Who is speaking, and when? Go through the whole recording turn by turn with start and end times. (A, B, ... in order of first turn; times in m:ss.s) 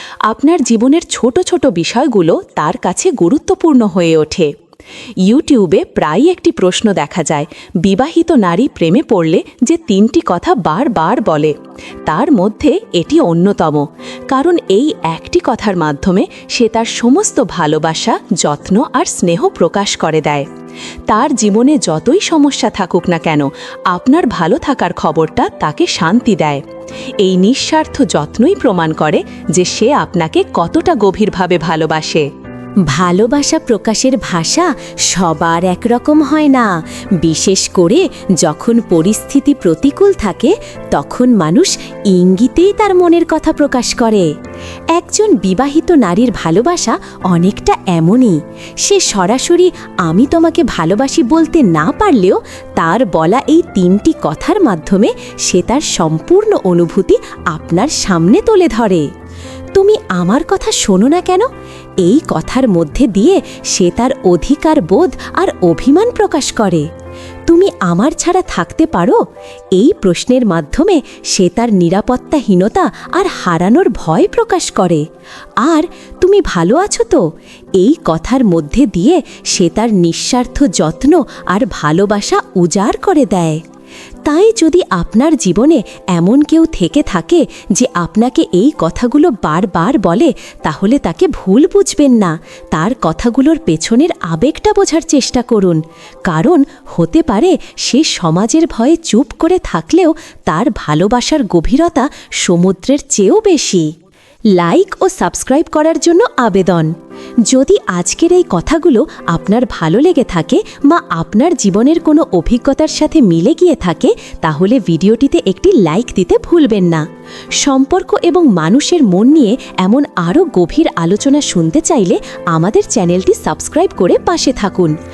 0:00.3-0:04.5 A
0:00.8-0:01.6 B
0:02.2-0:03.2 B
0:05.3-0:11.5 A
0:12.1-0:20.5 A
0:16.2-0:16.5 B
0:21.1-0:26.6 A
0:27.2-0:32.3 A
0:32.9-0:36.7 B
0:37.2-0:44.2 B
0:45.0-0:48.3 B
0:48.9-0:59.0 B
0:59.8-1:01.5 B
1:02.0-1:06.9 B
1:07.5-1:09.2 B
1:09.8-1:15.0 B
1:15.6-1:17.2 B
1:17.8-1:23.6 B
1:24.3-1:43.8 B
1:44.6-1:46.9 B
1:47.5-1:57.0 B
1:57.6-2:04.9 B